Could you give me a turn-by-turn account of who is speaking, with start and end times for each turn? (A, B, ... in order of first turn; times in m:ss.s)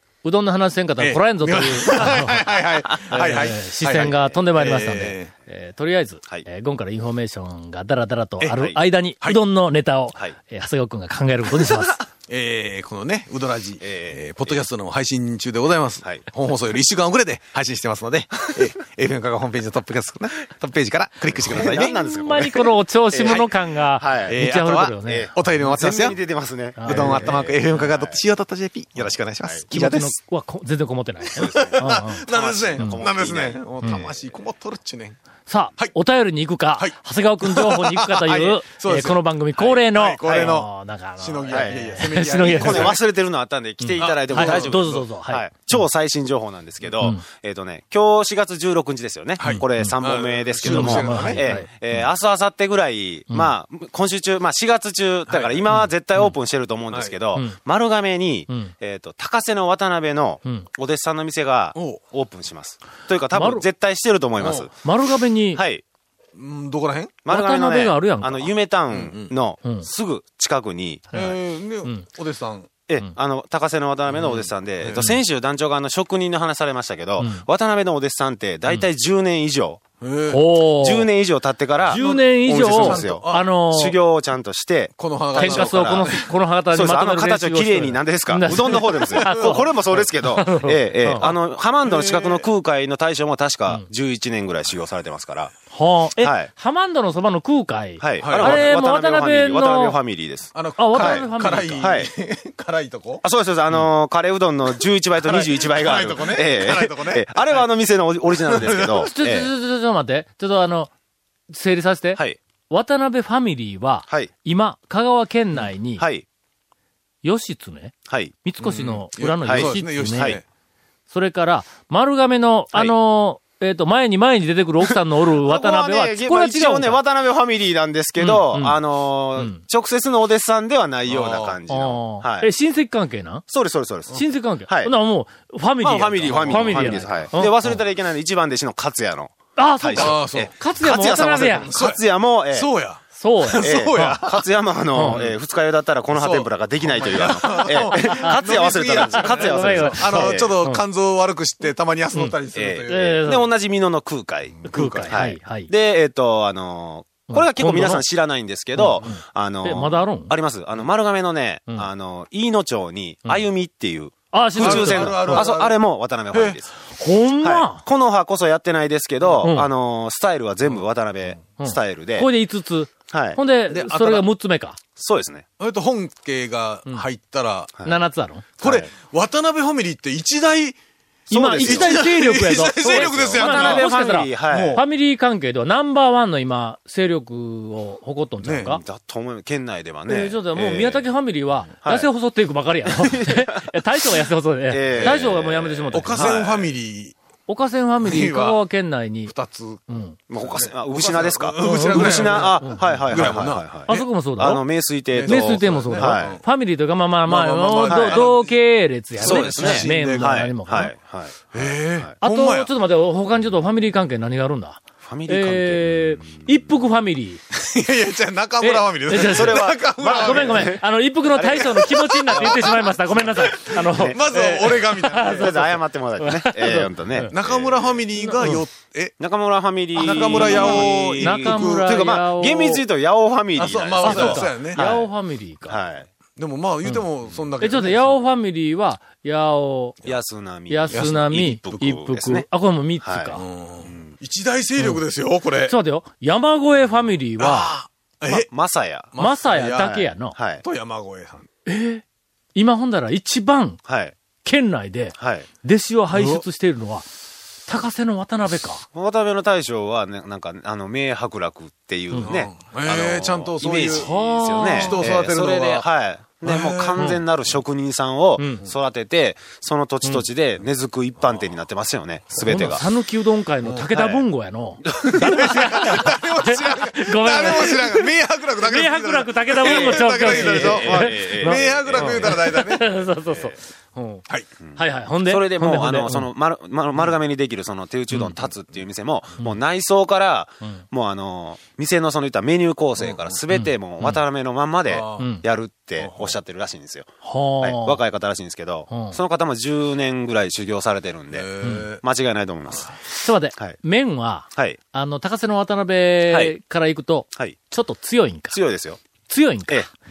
0:00.2-0:12.0 A
0:01.0-0:05.3 B
0:03.1-0:04.4 C
0:08.4-0:08.8 C
0:11.5-0:21.9 B
0:13.8-0:14.6 C
0:21.3-0:24.4 C
0:21.6-0:25.3 A
0:24.3-0:26.2 B
0:25.0-0:28.2 C
0:26.8-0:27.4 A
0:26.8-0:30.2 B
0:29.0-0:30.1 C
0:29.7-0:32.2 A
0:31.3-0:35.2 B
0:31.4-0:34.2 C
0:32.8-0:33.0 A
0:35.5-0:43.0 A
0:36.8-0:43.0 B
0:40.2-0:40.5 C
0:41.5-0:41.8 C
0:42.4-1:04.7 C
0:43.8-0:45.1 B
0:44.3-0:45.8 A
0:49.4-0:51.6 B
0:49.4-0:50.0 A
0:50.6-0:52.1 A
0:53.3-0:53.5 A
0:55.3-0:55.6 B
0:55.7-0:56.3 A
0:56.9-0:57.1 B
1:01.7-1:02.0 B
1:03.3-1:03.7 A
1:04.4-1:04.7 B
1:04.7-1:05.6 A
1:05.5-1:05.8 C
1:06.4-1:07.1 B
1:07.2-1:11.3 C
1:07.3-1:08.6 A
1:08.9-1:09.3 B
1:11.1-1:12.7 B
1:12.9-1:19.8 C
1:14.8-1:15.2 B
1:17.2-1:17.4 A
1:20.0-1:20.5 B
1:20.3-1:21.1 A
1:20.6-1:26.1 C
1:21.8-1:23.5 B
1:21.9-1:24.0 A
1:24.9-1:26.3 B
1:25.3-1:31.3 A
1:26.7-1:35.5 C
1:28.7-1:29.6 B
1:31.8-1:32.5 B
1:35.7-1:40.0 A
1:36.2-1:36.5 C
1:38.0-1:41.2 C
1:38.2-1:38.7 B
1:40.5-1:43.2 B
1:40.8-1:41.9 A
1:41.8-1:42.1 C
1:43.2-1:49.5 C
1:45.2-1:47.6 B
1:48.4-1:49.1 B
1:48.9-1:50.9 A
1:51.5-1:56.0 A
1:56.0-1:56.2 C
1:57.2-2:00.4 A
1:58.1-1:58.4 C
1:58.6-2:00.4 B
1:59.4-2:00.4 C
2:01.1-2:07.0 A
2:04.9-2:12.5 C
2:08.2-2:08.8 A
2:09.3-2:09.6 A
2:11.1-2:11.6 B
2:11.7-2:13.4 A
2:13.5-2:14.9 C
2:14.1-2:17.8 A
2:15.8-2:22.7 C
2:16.2-2:17.2 B
2:19.6-2:21.7 A
2:19.9-2:20.6 B
2:21.3-2:25.3 B
2:23.1-2:24.2 A
2:23.6-2:30.6 C
2:24.9-2:25.3 A
2:26.1-2:33.3 B
2:27.6-2:30.8 A
2:32.5-2:46.7 C
2:32.9-2:33.5 A
2:34.6-2:35.2 B
2:34.7-2:35.7 A
2:37.3-2:38.0 A
2:38.7-2:40.3 A
2:44.3-2:45.4 A
2:44.5-2:45.8 B
2:46.3-2:46.6 B
2:47.0-2:47.8 A
2:47.4-2:52.3 C
2:49.4-2:49.7 A
2:51.6-2:54.8 A
2:53.1-2:53.4 C
2:53.7-2:54.2 B
2:55.0-2:55.4 C
2:55.6-2:57.7 B
2:57.8-2:58.4 A
2:58.6-3:00.8 B
2:58.6-2:58.9 C
3:01.3-3:08.8 A
3:01.3-3:02.1 C
3:01.6-3:03.9 B
3:02.8-3:04.8 C
3:04.5-3:04.8 B
3:08.4-3:08.8 B
3:08.6-3:11.0 C
3:10.0-3:16.3 A
3:11.8-3:12.1 C
3:12.9-3:13.7 C
3:14.7-3:16.7 C
3:14.9-3:15.2 B
3:15.9-3:17.1 B
3:17.5-3:19.3 A
3:18.0-3:18.6 B
3:19.2-3:19.8 B
3:19.9-3:20.2 A
3:20.3-3:26.4 C
3:20.4-3:24.1 B
3:21.6-3:23.3 A
3:23.9-3:24.6 A
3:25.1-3:26.4 B
3:25.2-3:30.9 A
3:27.2-3:28.6 B
3:27.9-3:28.3 C
3:29.1-3:30.5 B
3:29.2-3:32.1 C
3:31.5-3:32.7 B
3:32.2-3:37.4 A
3:35.0-3:36.5 C
3:37.5-3:40.8 B
3:38.6-3:47.3 A
3:39.1-3:44.7 C
3:41.4-3:45.6 B
3:45.3-3:48.0 C
3:47.3-3:49.2 B
3:48.2-3:48.6 A
3:49.2-3:55.1 C
3:49.9-3:52.0 B
3:50.0-3:52.8 A
3:53.5-3:54.8 B
3:54.0-3:55.8 A
3:55.6-3:56.1 C
3:56.4-3:58.2 B
3:57.6-4:00.0 A
4:00.0-4:02.4 C
4:00.7-4:03.4 A
4:00.9-4:01.3 B
4:03.0-4:04.2 C
4:03.3-4:05.7 B
4:05.6-4:07.7 A
4:07.4-4:08.5 B
4:08.3-4:09.1 C
4:09.1-4:10.0 B
4:09.2-4:10.4 A
4:09.8-4:10.6 C
4:10.6-4:11.5 B
4:11.6-4:12.0 A
4:12.5-4:13.8 A
4:13.8-4:14.1 C
4:14.4-4:17.0 A
4:15.2-4:15.5 C
4:16.1-4:16.4 B
4:17.6-4:18.8 A
4:18.9-4:32.8 C
4:22.2-4:25.9 B
4:23.9-4:25.1 A
4:26.4-4:27.1 B
4:28.4-4:28.6 A
4:32.4-4:38.1 A
4:33.9-4:34.2 C
4:34.8-4:35.6 C
4:35.1-4:42.9 B
4:38.6-4:46.3 A
4:39.6-4:43.5 C
4:44.6-4:57.1 C
4:53.0-4:53.4 B
4:53.5-4:54.2 A
4:54.9-4:55.3 B
4:55.2-4:55.4 A
4:56.0-4:56.4 B
4:57.2-4:58.0 A
4:57.6-5:03.0 C
4:58.9-4:59.2 A
5:01.3-5:02.0 B
5:03.1-5:08.6 A
5:06.3-5:06.5 C
5:08.5-5:09.0 C
5:09.3-5:09.9 A